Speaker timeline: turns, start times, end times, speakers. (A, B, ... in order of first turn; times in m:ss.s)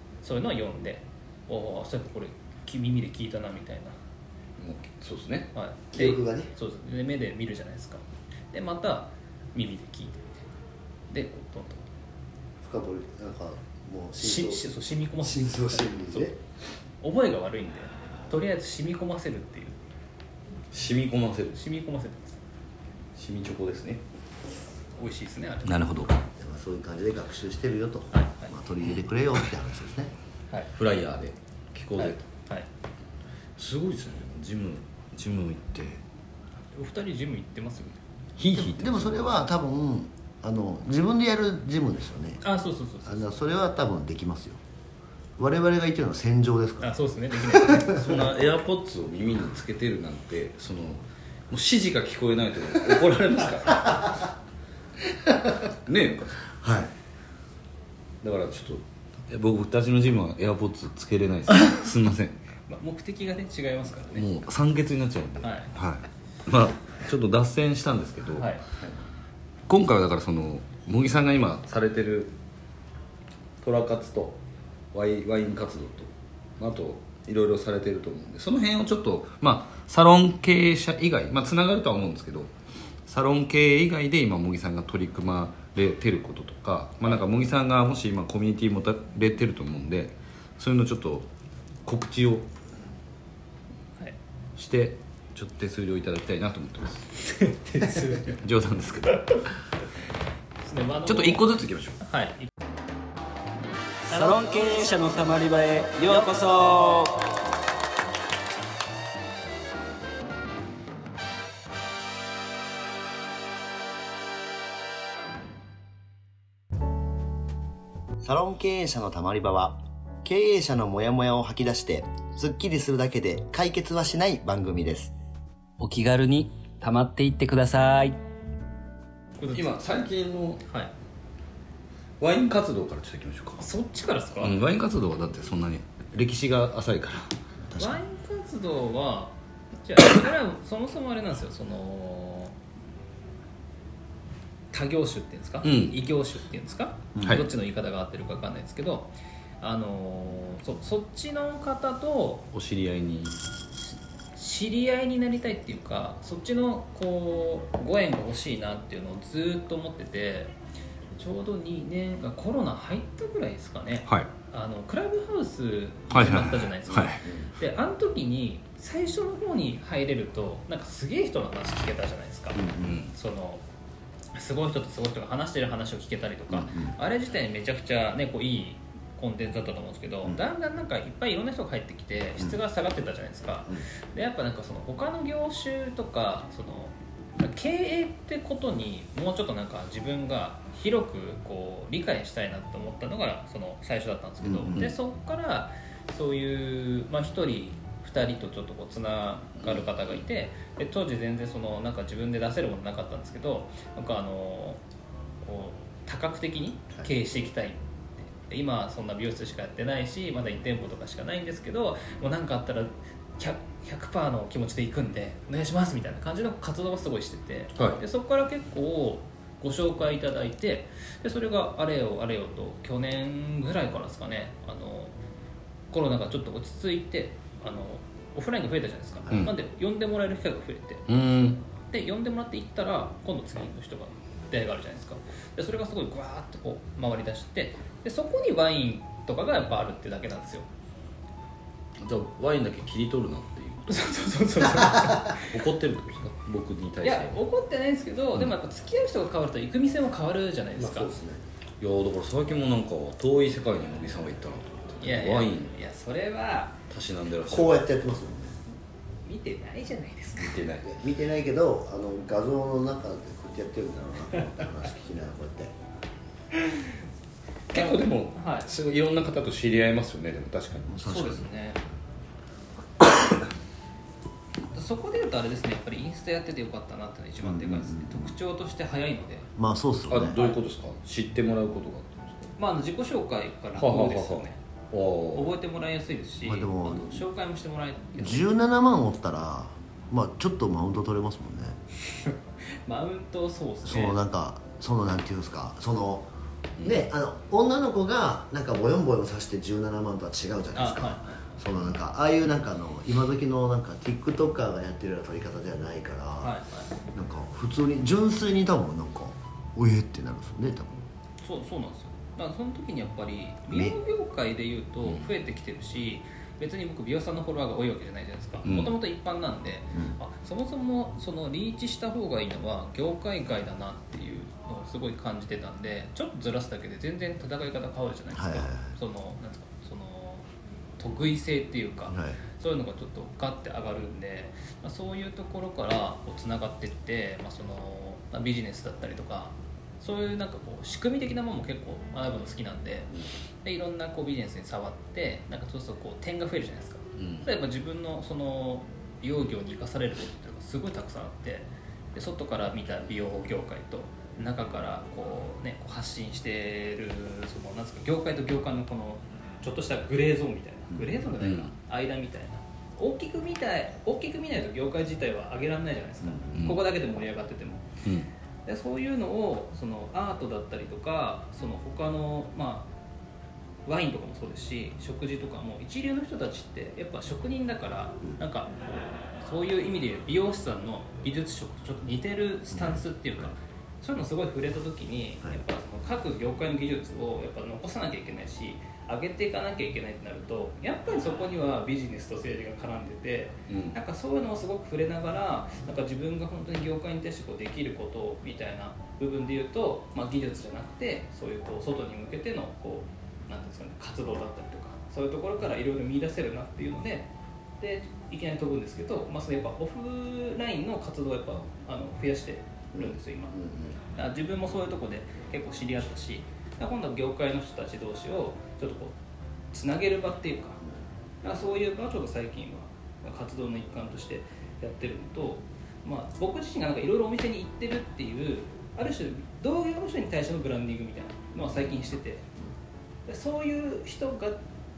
0:00.2-0:03.9 A
0:04.6-0:05.5 B
0:05.5-0:10.2 A
0:05.9-0:06.5 C
0:11.1-0:11.8 A
0:12.6-0:14.7 C
0:14.2-0:16.3 A
0:15.2-0:16.4 C
0:17.0-0:19.8 A
0:20.7-0:21.6 B
0:21.6-0:22.4 A
0:23.2-0:24.0 B
0:25.0-0:25.8 A
0:25.6-0:26.2 B
0:26.4-0:30.1 C
0:28.1-0:28.5 A
0:30.7-0:32.2 B
0:32.0-0:32.7 A
0:33.6-0:36.0 B
0:36.7-0:38.0 A
0:38.4-0:39.4 B
0:38.5-0:42.4 C
0:42.4-0:43.3 A
0:43.0-0:44.6 C
0:45.4-0:48.0 C
0:46.8-0:48.1 A
0:47.9-0:54.3 B
0:55.8-0:56.4 B
0:56.6-0:56.9 C
0:58.2-1:02.4 B
1:02.7-1:04.3 A
1:04.1-1:08.5 B
1:05.4-1:05.7 A
1:08.4-1:08.6 A
1:09.7-1:12.3 B
1:13.6-1:14.4 B
1:14.9-1:22.5 B
1:23.1-1:31.3 B
1:31.9-1:32.5 B
1:34.6-1:37.1 B
1:37.3-1:38.4 A
1:38.3-1:39.4 B
1:40.6-1:42.5 A
1:41.1-1:42.0 B
1:44.1-1:47.2 D
1:58.2-2:05.1 C
2:05.8-2:08.2 D
2:09.4-2:09.8 A
2:09.5-2:10.6 B
2:10.7-2:10.9 A
2:12.2-2:13.7 B
2:13.6-2:14.6 A
2:14.4-2:17.3 B
2:17.7-2:18.0 C
2:17.8-2:22.6 A
2:24.7-2:32.5 A
2:25.6-2:26.0 B
2:27.2-2:27.4 C
2:32.5-2:33.4 B
2:34.4-2:40.5 A
2:41.1-2:53.6 A
2:46.1-2:47.2 B
2:47.2-2:47.5 C
2:52.6-2:53.0 C
2:52.8-2:53.1 B
2:54.3-3:24.8 A
2:56.5-2:57.0 C
3:14.4-3:14.8 C
3:25.4-3:45.2 A
3:45.9-3:51.1 A
3:51.1-3:51.6 B
3:51.9-4:00.7 A
4:02.0-4:04.0 B
4:03.9-4:05.5 A
4:05.3-4:07.4 B
4:07.0-4:11.1 A
4:10.8-4:11.4 C
4:11.8-4:15.7 B
4:15.0-4:16.8 A
4:16.9-4:17.8 B
4:17.5-4:18.6 C
4:19.2-4:20.6 A
4:20.4-4:20.9 B
4:20.8-4:25.7 C
4:27.7-4:31.0 B
4:27.7-4:28.7 A
4:30.9-4:31.5 C
4:31.0-4:31.8 A
4:34.7-4:39.5 A
4:37.4-4:38.3 C
4:39.6-4:40.4 C
4:40.1-4:42.5 B
4:40.2-4:40.6 A
4:42.6-4:44.6 A
4:43.8-4:45.5 B
4:45.3-4:48.5 A
4:46.4-4:47.2 C
4:48.2-4:51.8 C
4:52.1-4:54.2 A
4:53.8-4:56.3 C
4:56.8-5:06.6 C
5:00.8-5:01.4 A
5:06.4-5:06.9 A
5:07.1-5:11.0 C
5:11.4-5:30.4 A
5:13.7-5:14.0 C
5:18.6-5:18.9 B
5:28.3-5:28.9 C
5:31.0-5:43.1 A
5:32.1-5:32.4 C
5:43.6-6:07.9 A
5:47.2-5:47.5 B
6:01.4-6:01.7 B
6:06.5-6:06.8 B
6:08.7-6:12.9 A
6:13.9-6:47.3 A
6:33.7-6:34.0 B
6:47.8-6:53.6 A
6:52.9-6:54.0 C
6:54.1-6:59.1 A
6:59.7-7:00.8 A
7:01.4-7:12.5 A
7:13.3-7:14.6 A